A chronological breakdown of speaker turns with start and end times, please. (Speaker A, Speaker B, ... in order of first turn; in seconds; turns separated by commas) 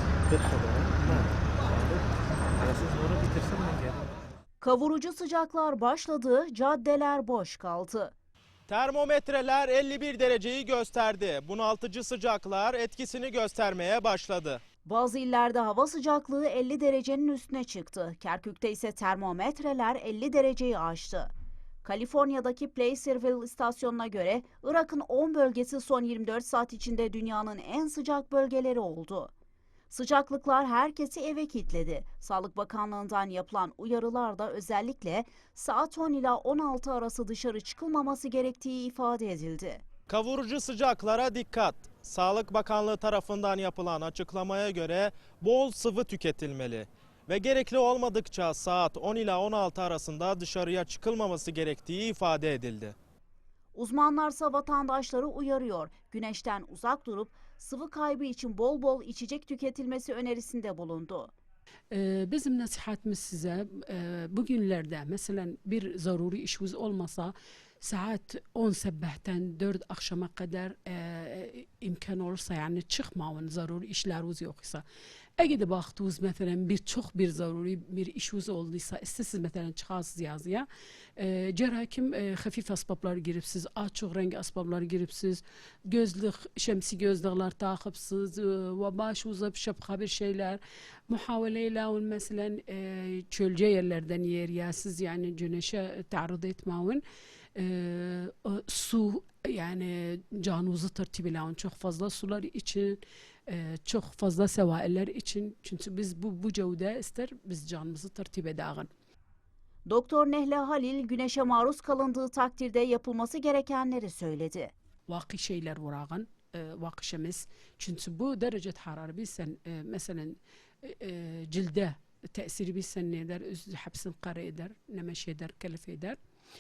Speaker A: 0.3-2.0, Speaker A: 2.6-4.1, Speaker B: 4.6-8.1, Speaker C: 8.7-14.6, Speaker B: 14.8-21.2, Speaker B: 21.8-29.3, Speaker B: 29.9-39.8, Speaker C: 40.1-53.0, Speaker B: 53.7-60.9, Speaker D: 61.9-74.8, Speaker D: 75.4-97.0, Speaker D: 97.5-108.9, Speaker B: 109.9-110.4, Speaker B: 110.9-112.2, Speaker B: 112.7-113.7, Speaker D: 115.1-126.2